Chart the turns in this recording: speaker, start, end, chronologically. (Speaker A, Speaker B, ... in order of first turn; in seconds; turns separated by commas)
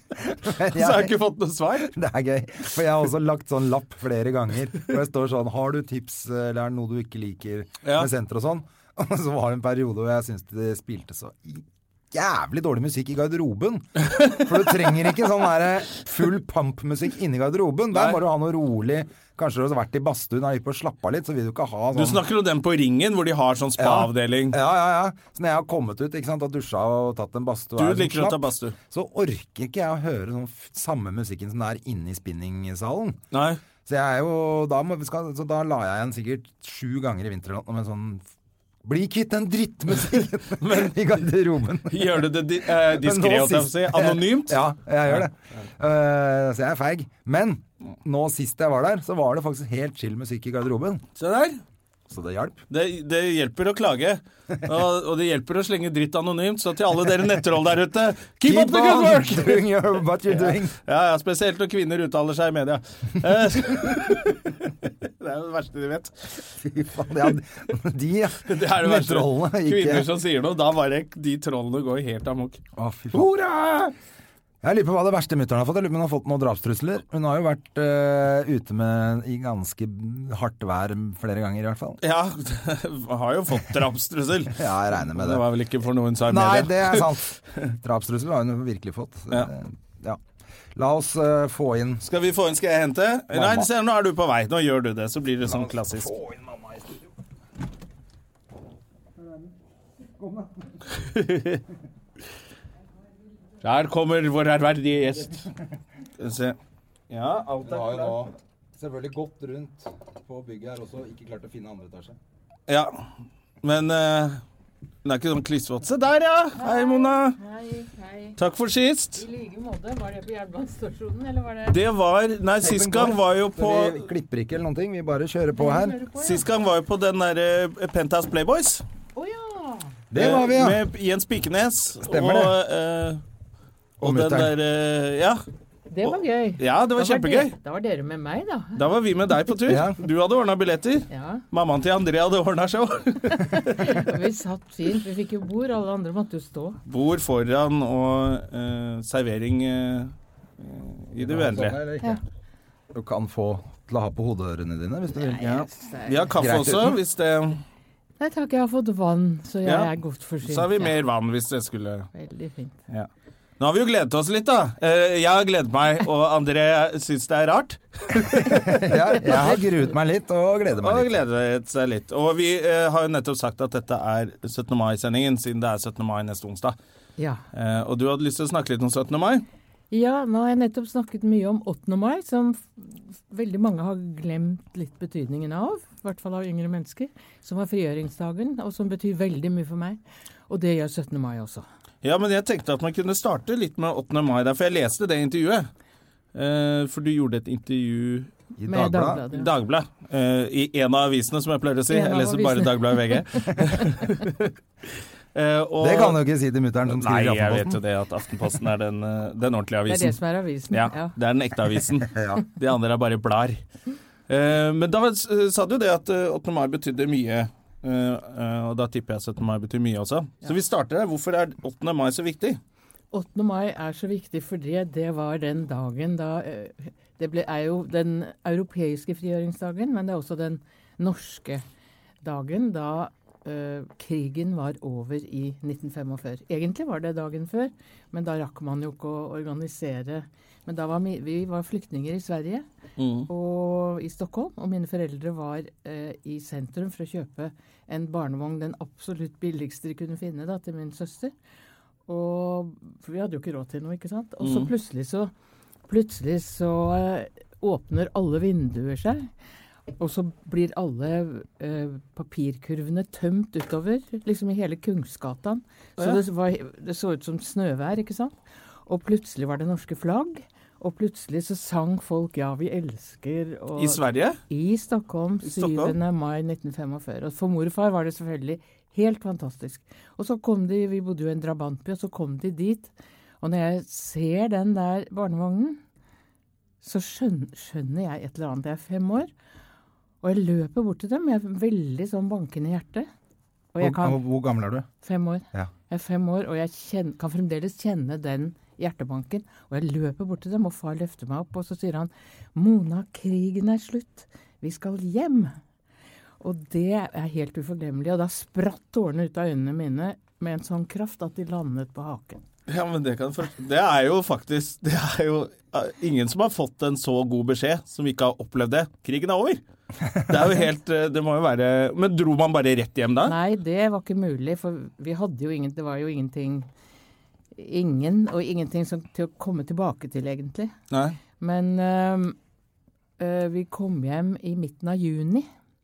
Speaker A: 0.2-1.1, Speaker B: 0.6-1.9, Speaker A: 1.9-22.2, Speaker B: 7.8-8.1, Speaker B: 14.1-14.4, Speaker B: 17.9-18.2, Speaker B: 21.9-24.6, Speaker A: 23.8-33.2, Speaker B: 27.8-28.8, Speaker B: 33.3-33.6, Speaker A: 33.8-38.2, Speaker A: 38.8-51.0, Speaker B: 40.6-41.1, Speaker B: 41.9-45.3, Speaker B: 51.2-51.6, Speaker A: 52.1-52.6, Speaker B: 52.7-59.7, Speaker A: 58.4-60.8, Speaker B: 60.3-66.4, Speaker A: 66.6-70.1, Speaker B: 68.4-72.6, Speaker A: 72.8-73.3, Speaker B: 73.1-73.9, Speaker A: 74.6-82.0, Speaker B: 82.0-87.7, Speaker A: 84.5-85.4, Speaker A: 86.2-90.2, Speaker A: 90.7-92.0, Speaker B: 92.0-96.1, Speaker A: 93.3-93.7, Speaker A: 95.4-97.1, Speaker A: 99.2-99.5, Speaker A: 100.1-100.8, Speaker B: 101.0-101.6, Speaker B: 103.6-105.5, Speaker B: 106.2-106.6, Speaker B: 107.1-108.3, Speaker A: 107.6-112.2, Speaker B: 112.7-113.1, Speaker B: 113.6-114.4, Speaker B: 115.0-117.4, Speaker C: 116.6-118.4, Speaker B: 118.4-119.2, Speaker C: 119.1-121.8, Speaker B: 121.7-124.1, Speaker A: 122.6-126.0, Speaker C: 125.6-126.4, Speaker B: 126.2-128.8, Speaker C: 129.1-129.9, Speaker A: 130.1-130.8, Speaker B: 130.1-133.2, Speaker A: 132.1-132.6, Speaker B: 134.0-135.4, Speaker A: 134.0-134.5, Speaker C: 135.9-138.8, Speaker B: 136.0-137.5, Speaker B: 138.8-144.1, Speaker A: 139.7-140.0, Speaker C: 141.1-141.4, Speaker C: 143.3-146.8, Speaker B: 146.9-151.8, Speaker A: 151.2-152.2, Speaker A: 152.9-155.4, Speaker C: 155.1-156.3, Speaker B: 155.4-157.6, Speaker A: 156.4-157.0, Speaker C: 158.2-160.9, Speaker B: 159.6-162.1, Speaker C: 162.1-162.8, Speaker B: 163.6-169.4, Speaker A: 168.4-171.1, Speaker B: 170.8-176.8, Speaker B: 177.5-179.4, Speaker C: 179.9-191.6, Speaker B: 192.0-195.7, Speaker B: 196.3-198.3, Speaker A: 198.6-199.2, Speaker C: 198.7-199.5, Speaker B: 199.3-204.5, Speaker C: 201.9-204.1, Speaker B: 205.3-206.2, Speaker A: 205.8-207.8, Speaker B: 206.9-210.2, Speaker C: 209.9-211.1, Speaker B: 210.7-213.6, Speaker A: 212.0-212.4, Speaker B: 214.3-222.6, Speaker C: 223.1-231.6, Speaker C: 232.2-242.6, Speaker B: 243.0-243.3, Speaker C: 243.3-251.3, Speaker C: 252.1-255.3, Speaker B: 254.4-254.7, Speaker C: 255.9-259.3, Speaker C: 260.0-268.4, Speaker C: 268.9-285.8, Speaker B: 273.8-274.4, Speaker B: 275.4-275.9, Speaker C: 286.8-289.3, Speaker C: 290.2-293.1, Speaker C: 293.7-294.2, Speaker A: 293.8-294.9, Speaker C: 295.0-305.6, Speaker C: 306.4-312.4, Speaker B: 312.7-319.6, Speaker B: 320.2-323.3, Speaker C: 323.2-326.7, Speaker C: 327.5-330.7, Speaker B: 330.9-331.2, Speaker C: 331.4-332.4, Speaker C: 333.2-335.5